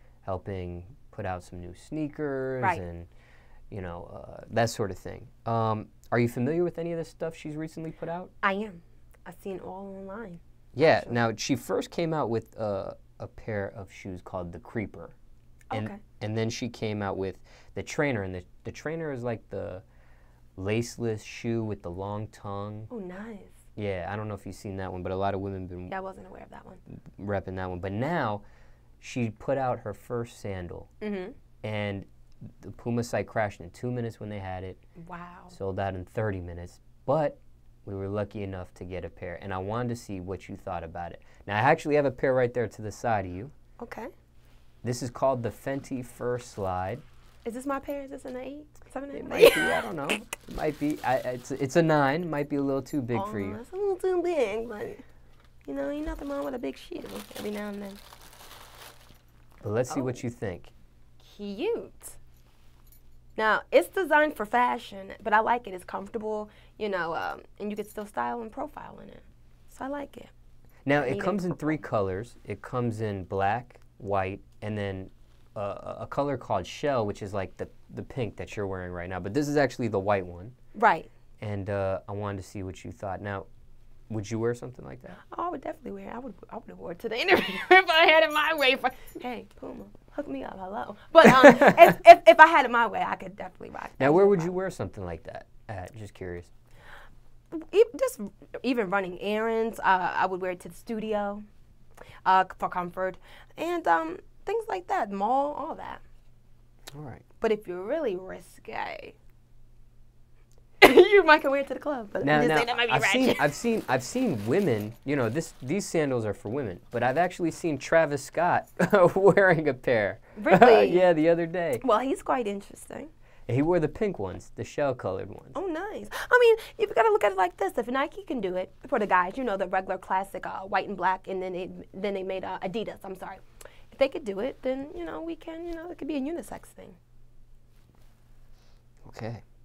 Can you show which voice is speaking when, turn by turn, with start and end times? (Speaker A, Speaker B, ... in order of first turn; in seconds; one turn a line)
Speaker A: 0.2-3.1
Speaker A: 3.7-8.3
Speaker B: 8.4-11.2
Speaker A: 10.7-15.2
Speaker B: 15.7-16.0
Speaker A: 15.7-19.8
Speaker A: 20.6-22.9
Speaker B: 22.9-23.6
Speaker A: 23.8-25.9
Speaker B: 25.9-26.8
Speaker A: 27.1-28.4
Speaker A: 29.0-30.9
Speaker B: 31.0-31.4
Speaker A: 31.6-34.8
Speaker B: 35.0-35.6
Speaker A: 35.5-43.5
Speaker B: 43.8-44.1
Speaker A: 44.8-47.0
Speaker B: 47.5-50.0
Speaker A: 49.1-53.6
Speaker B: 53.1-55.0
Speaker B: 55.7-58.0
Speaker A: 59.6-60.7
Speaker B: 59.9-60.2
Speaker B: 61.2-62.2
Speaker B: 63.4-70.3
Speaker A: 70.9-80.5
Speaker B: 71.0-71.8
Speaker B: 80.8-81.1
Speaker A: 81.4-83.5
Speaker A: 84.1-85.2
Speaker B: 85.2-94.6
Speaker A: 94.0-96.5
Speaker B: 97.5-101.4
Speaker B: 102.2-106.0
Speaker A: 106.9-107.2
Speaker B: 107.4-109.2
Speaker B: 110.8-113.6
Speaker A: 112.2-121.8
Speaker B: 120.4-121.1
Speaker B: 121.8-123.1
Speaker A: 123.5-125.6
Speaker B: 125.5-137.0
Speaker A: 139.1-139.4